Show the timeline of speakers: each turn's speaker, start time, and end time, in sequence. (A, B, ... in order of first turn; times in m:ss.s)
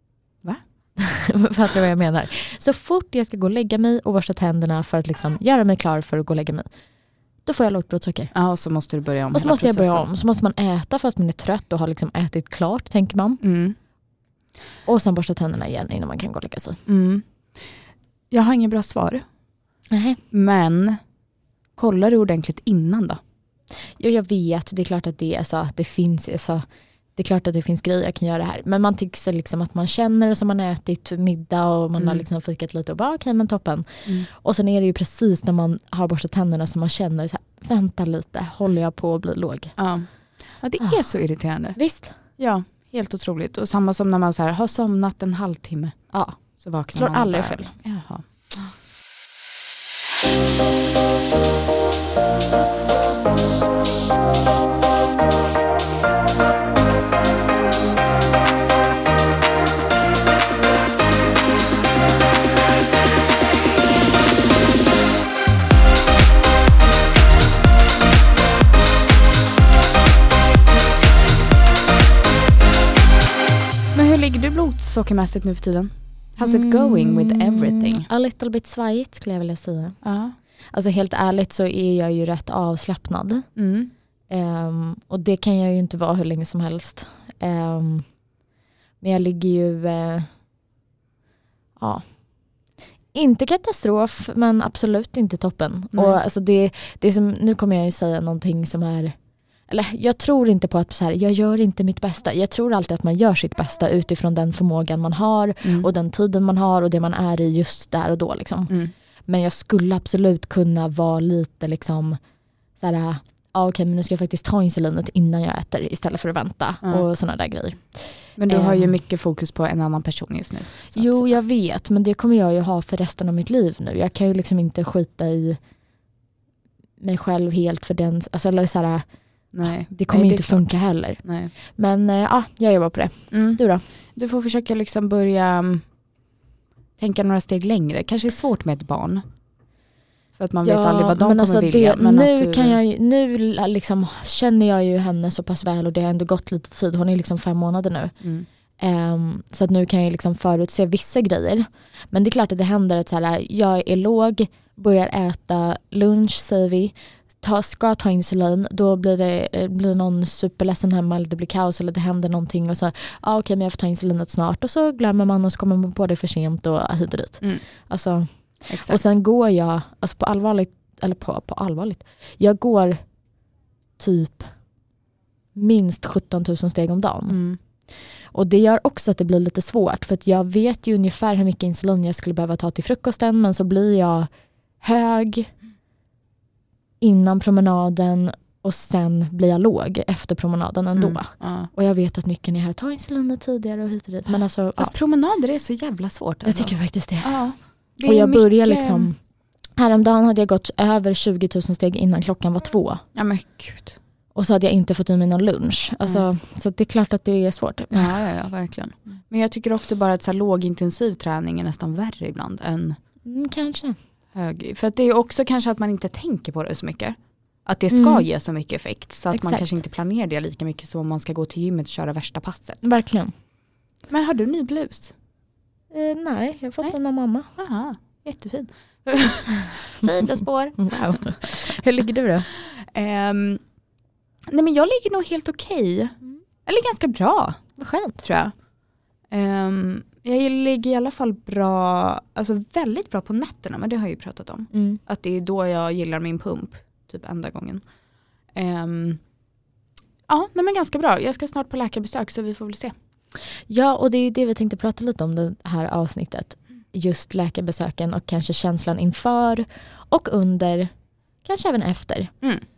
0:01.0-0:06.7 A
0:07.5-0:08.3 A
0:08.3-0:10.1 B
0:09.3-0:13.4 A
0:13.4-0:13.8 B
0:14.9-0:16.8 A
0:16.9-0:17.2 B
0:18.3-0:19.2 B
0:19.9-0:20.2 A
0:20.3-0:21.0 B
0:21.8-0:23.2 B
0:24.0-0:26.6 A
0:27.2-0:39.8 A
0:32.0-0:32.2 B
0:39.8-0:40.1 B
0:40.6-0:41.8 B
0:41.8-0:42.2 A
0:42.4-0:48.7 B
0:46.1-0:46.4 A
0:46.9-0:47.7 A
1:13.9-1:18.1 B
1:16.4-1:20.0 A
1:20.0-1:20.4 B
1:20.7-1:23.5 A
1:23.6-1:23.9 B
1:24.3-1:28.1 A
1:29.0-1:30.3 A
1:31.8-1:32.0 A
1:33.2-1:39.2 A
1:35.9-1:36.2 B
1:39.7-1:48.7 A
1:45.6-1:45.9 B
1:49.3-1:52.2 A
1:52.8-1:58.9 A
1:58.4-2:01.4 B
2:00.9-2:05.6 A
2:07.0-2:09.0 A
2:09.5-2:10.6 B
2:09.9-2:11.2 A
2:11.2-2:11.5 B
2:11.8-2:13.8 A
2:13.3-2:13.6 B
2:14.2-2:15.8 B
2:17.0-2:19.2 B
2:20.4-2:22.8 B
2:20.6-2:28.1 A
2:28.2-2:28.5 B
2:28.8-2:53.0 A
2:48.7-2:49.1 B
2:54.0-2:54.5 A
2:55.6-2:57.4 A
2:57.3-2:57.6 B
2:58.3-3:04.3 A
3:04.8-3:05.5 A
3:07.0-3:14.9 A
3:11.0-3:11.7 B
3:14.8-3:19.1 B
3:16.5-3:17.4 A
3:18.0-3:19.2 A
3:19.8-3:23.0 A
3:23.2-3:24.0 B
3:24.4-3:28.2 A
3:27.9-3:33.0 B
3:33.3-3:34.0 A
3:34.3-3:42.8 B
3:37.9-3:38.3 A
3:39.3-3:39.7 A
3:42.8-3:43.3 A
3:44.1-3:45.1 B
3:45.9-3:47.5 A
3:47.6-3:51.4 B
3:49.7-3:50.2 A
3:50.8-3:52.5 A
3:52.6-3:53.6 B
3:54.5-3:56.2 B
3:56.7-3:57.6 B
3:57.8-3:58.2 A
3:58.2-3:58.5 B
3:59.3-4:07.8 B
4:04.7-4:05.0 A
4:08.5-4:09.2 B
4:10.3-4:12.9 B
4:13.7-4:20.9 A
4:21.4-4:22.3 A